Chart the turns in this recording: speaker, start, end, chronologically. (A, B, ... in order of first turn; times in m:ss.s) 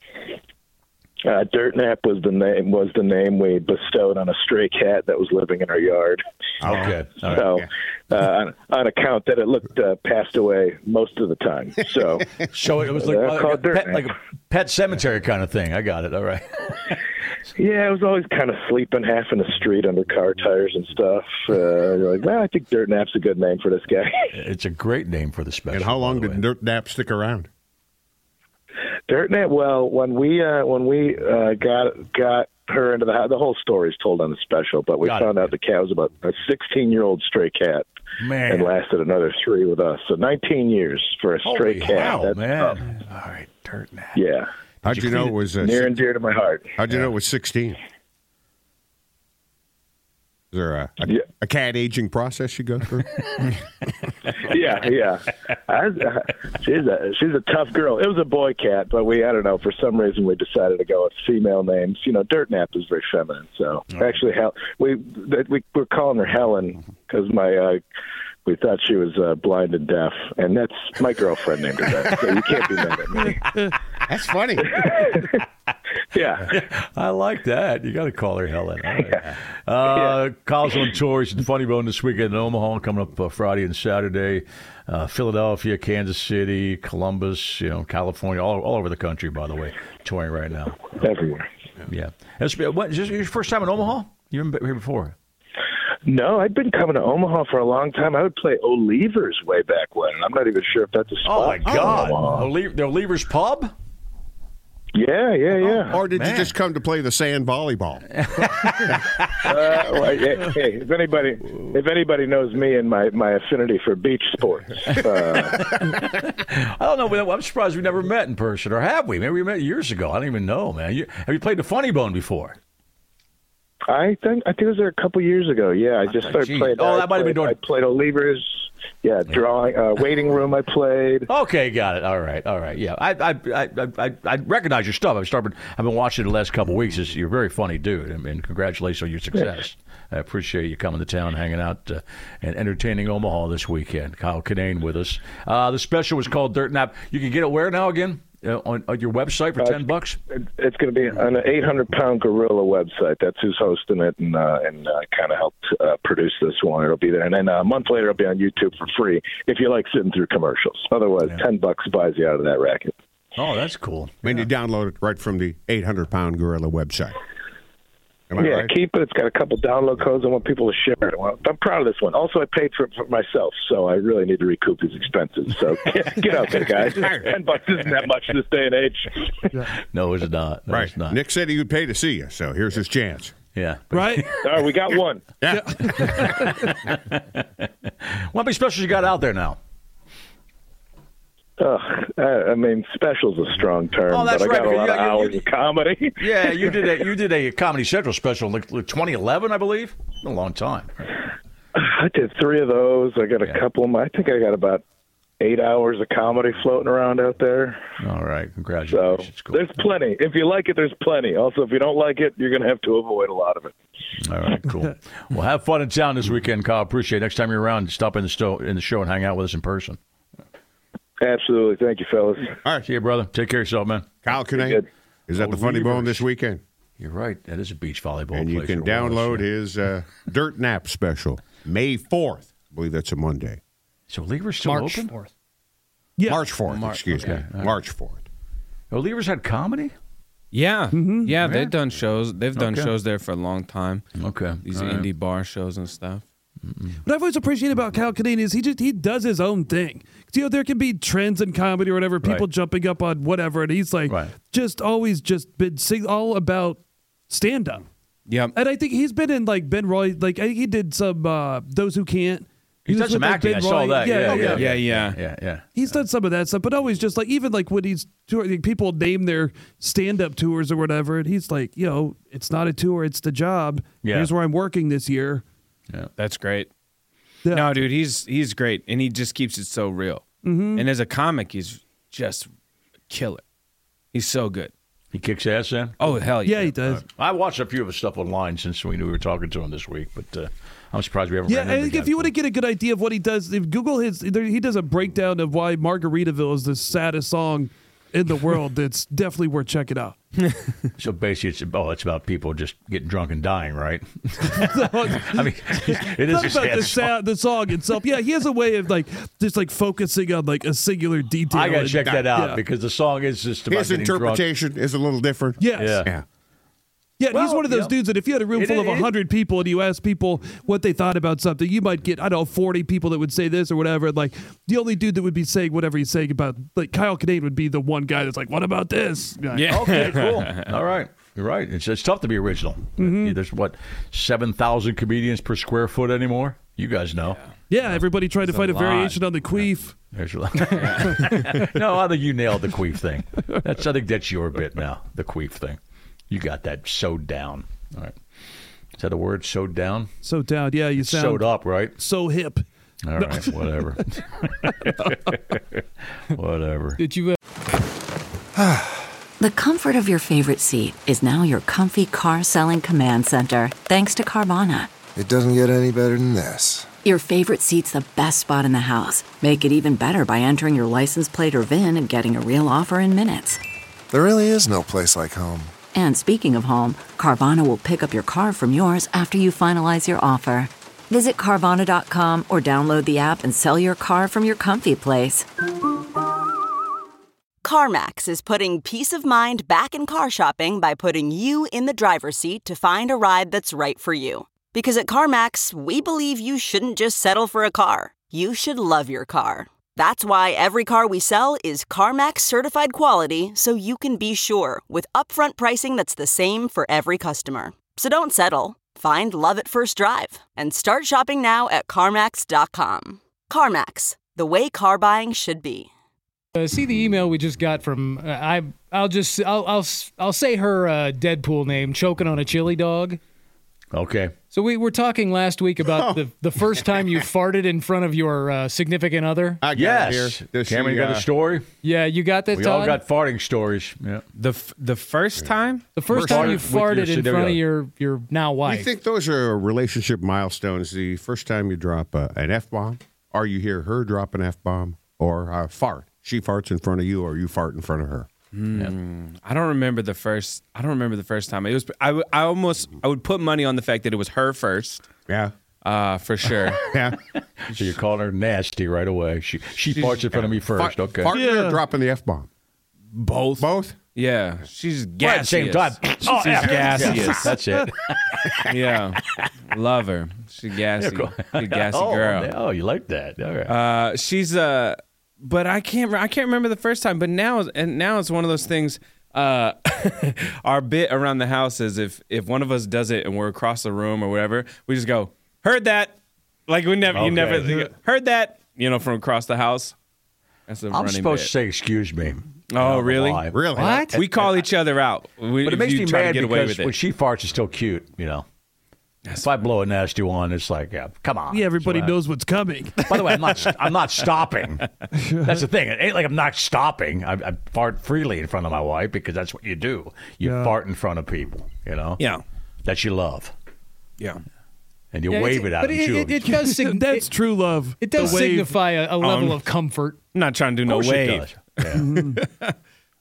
0:01.2-0:06.2 A
0:06.6-0:07.7 B
0:06.6-0:07.5 C
0:07.3-0:14.1 A
0:12.5-0:17.0 C
0:17.6-0:24.1 A
0:24.3-0:26.4 C
0:25.7-0:27.5 B
0:29.1-0:37.9 A
0:35.0-0:35.5 C
0:38.2-0:38.7 C
0:38.4-0:42.8 A
0:41.4-0:44.2 C
0:44.1-0:44.5 A
0:44.8-0:46.0 B
0:44.8-0:45.3 C
0:45.6-0:46.7 A
0:46.8-0:47.8 B
0:50.5-0:53.2 B
0:54.4-1:07.8 A
1:08.5-1:13.4 A
1:13.2-1:13.8 D
1:14.1-1:14.8 B
1:14.6-1:15.4 A
1:16.1-1:16.5 A
1:16.5-1:31.0 C
1:19.9-1:20.2 A
1:31.0-1:31.5 A
1:31.9-1:35.2 C
1:36.0-1:42.5 A
1:41.2-1:43.7 C
1:44.9-1:46.0 A
1:45.9-1:48.0 B
1:45.9-1:46.5 C
1:48.3-1:49.5 C
1:49.4-1:55.7 A
1:55.5-2:02.6 C
2:03.9-2:11.3 A
2:06.1-2:07.6 C
2:11.3-2:30.2 C
2:29.6-2:42.9 A
2:43.4-2:44.4 C
2:44.2-2:47.2 B
2:48.3-2:48.7 B
2:48.4-2:59.6 A
2:57.0-2:57.3 B
2:59.8-3:01.2 C
3:00.7-3:03.3 B
3:03.5-3:04.4 C
3:03.9-3:04.3 D
3:04.3-3:05.2 A
3:05.4-3:06.4 B
3:05.5-3:06.8 D
3:06.0-3:09.6 C
3:11.6-3:16.9 A
3:14.1-3:15.4 C
3:16.2-3:20.9 C
3:21.8-3:24.8 A
3:25.4-3:27.8 A
3:28.0-3:29.6 C
3:28.9-3:33.7 A
3:34.2-3:40.0 C
3:41.2-3:42.6 A
3:42.8-3:44.1 C
3:44.2-3:46.6 B
3:44.5-3:44.8 A
3:45.4-3:46.2 C
3:47.0-3:49.5 C
3:48.3-3:53.6 B
3:54.1-3:55.1 C
3:54.6-3:55.3 E
3:56.2-3:56.5 D
3:56.3-3:58.3 B
3:56.7-3:57.8 C
3:58.9-3:59.9 C
4:00.5-4:04.0 F
4:00.9-4:01.5 D
4:01.4-4:01.7 C
4:02.6-4:02.9 C
4:04.2-4:05.1 C
4:04.6-4:06.2 F
4:06.6-4:07.0 C
4:07.0-4:17.8 D
4:12.2-4:12.5 C
4:14.1-4:14.3 C
4:18.3-4:18.6 F
4:18.5-4:24.7 D
4:22.9-4:26.0 C
4:24.4-4:25.2 F
4:25.8-4:35.4 D
4:34.0-4:34.3 C
4:36.2-4:36.7 F
4:37.4-4:37.9 D
4:37.5-4:40.2 F
4:40.4-4:40.9 D
4:40.8-4:42.5 F
4:43.1-4:43.4 F
4:44.1-4:44.7 F
4:45.1-4:46.2 C
4:46.0-4:46.7 F
4:46.4-4:47.0 D
4:46.8-4:52.3 C
4:51.5-5:00.2 D
5:01.0-5:07.1 C
5:04.6-5:12.6 D
5:11.5-5:14.5 C
5:12.0-5:12.3 B
5:13.7-5:16.2 B
5:15.6-5:16.1 D
5:15.7-5:16.1 C
5:17.2-5:30.2 D
5:17.3-5:17.9 C
5:18.5-5:19.1 C
5:29.6-5:30.6 F
5:29.6-5:38.0 C
5:33.0-5:33.4 D
5:37.7-5:40.0 D
5:38.5-5:39.2 F
5:39.5-5:45.8 C
5:40.8-5:41.7 D
5:46.3-5:48.2 C
5:49.0-5:50.1 C
5:50.2-5:53.9 D
5:51.0-5:52.0 C
5:53.0-5:57.0 C
5:54.8-5:55.2 D
5:57.0-5:57.4 E
5:58.6-5:59.1 G
5:59.4-6:04.9 H
6:05.2-6:06.9 G
6:07.0-6:13.6 H
6:14.1-6:15.7 G
6:15.9-6:25.5 H
6:27.6-6:55.9 I
6:56.6-7:03.2 E
7:03.9-7:04.3 C
7:04.5-7:09.6 E
7:06.0-7:06.2 B
7:09.6-7:11.3 B
7:09.7-7:11.7 C
7:11.8-7:13.0 E
7:12.5-7:14.2 C
7:14.4-7:15.9 F
7:16.0-7:18.9 E
7:16.1-7:16.7 B
7:16.1-7:17.6 C
7:18.6-7:28.3 B
7:28.5-7:35.1 F
7:35.3-7:35.5 B
7:35.8-7:36.8 F
7:36.8-7:37.2 B
7:37.3-7:41.3 C
7:39.9-7:40.5 F
7:40.7-7:42.5 B
7:41.3-7:41.8 D
7:43.1-7:43.6 F
7:43.6-7:44.0 B
7:44.2-7:47.4 F
7:45.2-7:49.0 C
7:46.8-7:47.3 B
7:47.3-7:47.8 D
7:48.7-7:49.2 F
7:49.7-7:52.5 F
7:50.9-7:53.8 C
7:53.7-8:06.2 F
8:06.7-8:10.0 F
8:07.1-8:07.8 C
8:07.5-8:07.9 D
8:10.7-8:11.3 F
8:10.9-8:13.7 C
8:12.7-8:13.4 F
8:13.5-8:14.1 B
8:13.8-8:14.2 E
8:14.0-8:16.9 F
8:15.6-8:18.4 C
8:19.3-8:22.2 C
8:21.5-8:23.4 D
8:23.0-8:24.9 C
8:25.1-8:25.6 D
8:25.4-8:32.2 C
8:30.4-8:30.8 D
8:32.8-8:33.5 C
8:35.1-8:36.5 C
8:35.3-8:37.3 E
8:36.4-8:38.8 D
8:38.0-8:40.2 E
8:39.2-8:39.6 F
8:40.3-8:41.4 F
8:40.9-8:42.0 C
8:41.9-8:42.4 D
8:42.1-8:42.8 F